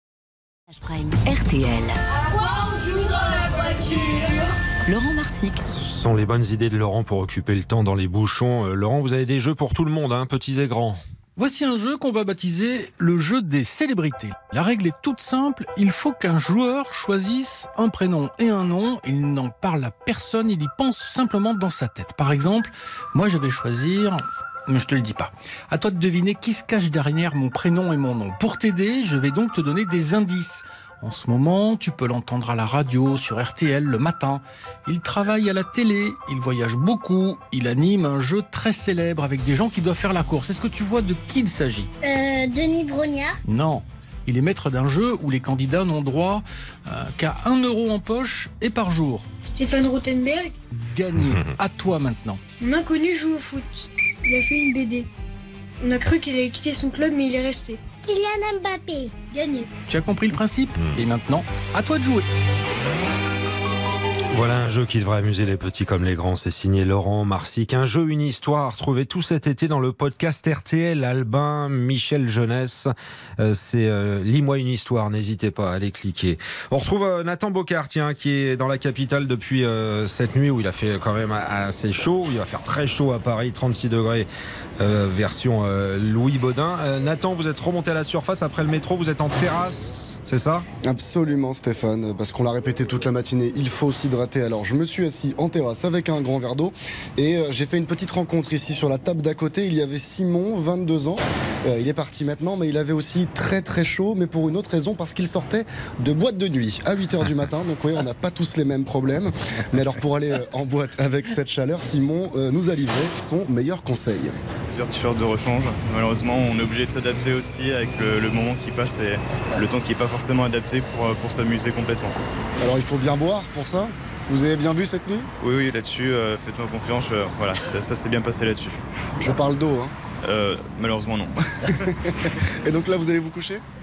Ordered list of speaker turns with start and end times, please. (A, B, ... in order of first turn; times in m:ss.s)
0:00.7-0:05.6 A
0:05.7-0:11.0 B
0:11.4-0:41.9 C
0:42.0-0:43.4 D
0:43.5-0:49.3 C
0:49.4-0:50.5 E
0:50.7-0:52.4 C
0:52.6-0:55.1 E
0:55.8-0:57.8 E
0:58.0-0:59.2 D
0:59.3-0:59.7 E
0:59.9-1:02.3 C
1:04.3-1:24.3 B
1:24.8-1:30.7 B
1:30.8-1:54.3 F
1:54.7-2:02.2 G
2:02.6-2:05.3 F
2:05.4-2:08.8 G
2:09.2-2:10.0 F
2:10.2-2:11.9 G
2:11.7-2:13.6 F